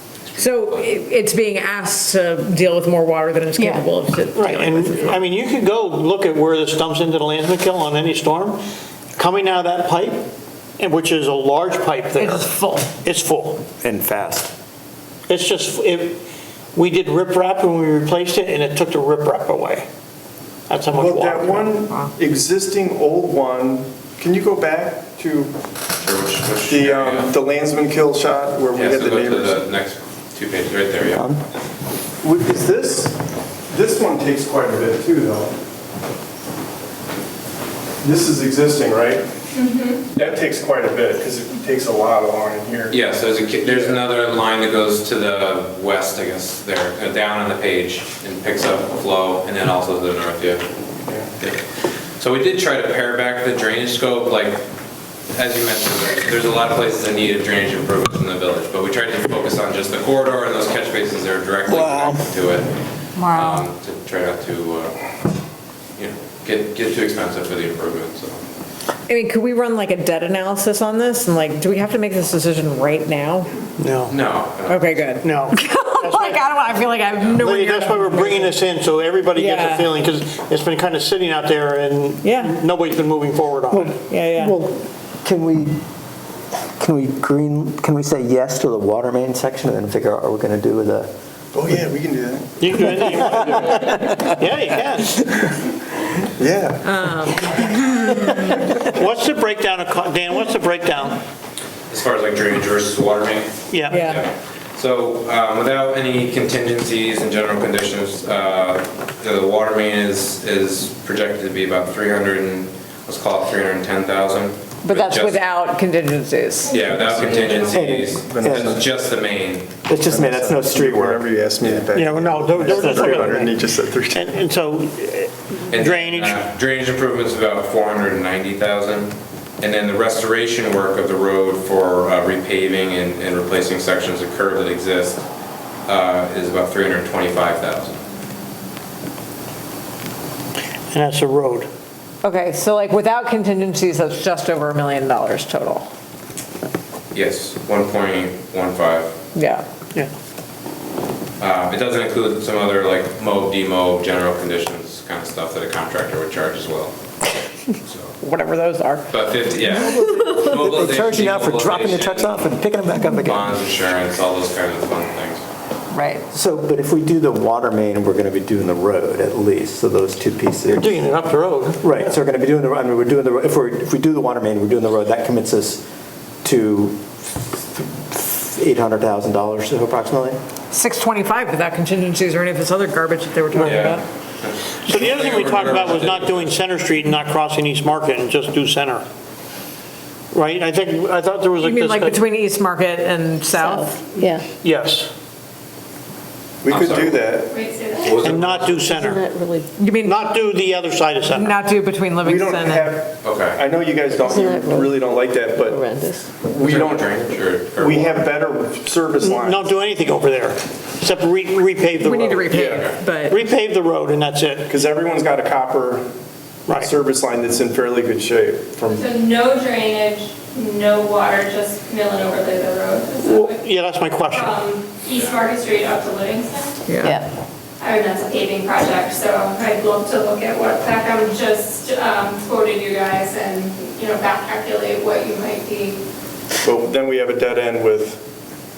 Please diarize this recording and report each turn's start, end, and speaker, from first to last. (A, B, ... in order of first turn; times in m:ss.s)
0:00.3-0:00.9 A
0:00.4-0:05.2 B
0:03.6-0:03.8 C
0:04.3-0:08.6 D
0:09.2-0:13.6 D
0:12.1-0:12.9 B
0:13.8-0:14.5 E
0:15.3-0:16.2 D
0:16.7-0:19.9 D
0:20.7-0:21.8 D
0:20.9-0:25.5 F
0:26.0-0:27.3 A
0:26.7-0:29.6 F
0:28.7-0:31.3 A
0:31.1-0:31.4 E
0:32.2-0:33.2 F
0:33.7-0:35.6 F
0:38.0-0:39.3 F
0:39.5-0:40.1 G
0:40.1-0:43.0 F
0:42.9-0:50.6 A
0:43.6-0:44.0 F
0:52.2-0:54.6 A
0:55.3-1:05.0 A
1:01.7-1:02.3 E
1:03.2-1:03.6 B
1:06.0-1:08.4 A
1:09.1-1:13.5 B
1:13.8-1:14.2 D
1:14.1-1:15.2 A
1:14.6-1:18.6 B
1:15.2-1:16.5 D
1:17.4-1:24.0 D
1:19.4-1:19.9 B
1:22.2-1:22.6 B
1:23.7-1:25.8 E
1:24.0-1:24.6 B
1:26.8-1:31.1 E
1:31.5-1:34.1 F
1:32.6-1:35.2 D
1:36.4-1:36.9 F
1:36.8-1:38.6 B
1:38.8-1:41.2 D
1:41.9-1:55.4 A
1:43.7-1:44.1 D
1:43.9-1:44.2 B
1:54.8-1:56.7 B
1:56.6-1:57.9 G
1:56.7-1:59.7 A
1:57.0-1:58.9 F
1:57.7-1:58.8 E
1:59.8-2:01.2 E
1:59.9-2:04.3 F
2:01.9-2:03.6 D
2:04.1-2:06.4 D
2:05.7-2:15.2 A
2:15.8-2:18.0 A
2:20.9-2:21.7 D
2:22.2-2:25.9 B
2:27.1-2:29.1 A
2:29.3-2:29.6 B
2:31.4-2:36.9 A
2:37.8-2:38.1 A
2:38.2-2:39.2 B
2:39.1-2:45.4 A
2:39.6-2:43.5 E
2:45.9-2:46.2 B
2:46.3-2:51.1 E
2:50.7-2:52.1 D
2:51.8-2:55.8 E
2:56.4-3:00.4 E
3:00.7-3:04.0 B
3:03.5-3:03.9 D
3:03.6-3:06.6 A
3:04.8-3:09.0 D
3:10.3-3:12.3 D
3:11.6-3:14.2 B
3:13.5-3:14.4 C
3:14.6-3:15.1 D
3:16.6-3:17.5 F
3:16.7-3:17.2 A
3:17.5-3:18.8 G
3:18.0-3:18.8 A
3:18.2-3:19.2 D
3:18.7-3:19.7 C
3:19.8-3:20.2 B
3:20.0-3:21.6 D
3:21.3-3:22.9 B
3:22.2-3:29.8 F
3:23.2-3:23.6 A
3:24.2-3:24.9 C
3:25.7-3:26.2 C
3:26.6-3:28.2 A
3:29.2-3:32.6 D
3:32.0-3:33.4 B
3:32.5-3:32.8 F
3:32.5-3:33.0 A
3:33.3-3:34.7 D
3:34.7-3:36.0 F
3:36.7-3:36.9 D
3:36.7-3:39.0 F
3:38.9-3:46.8 G
3:43.2-3:44.6 D
3:46.8-3:47.2 B
3:47.8-3:56.0 G
3:56.6-3:58.2 F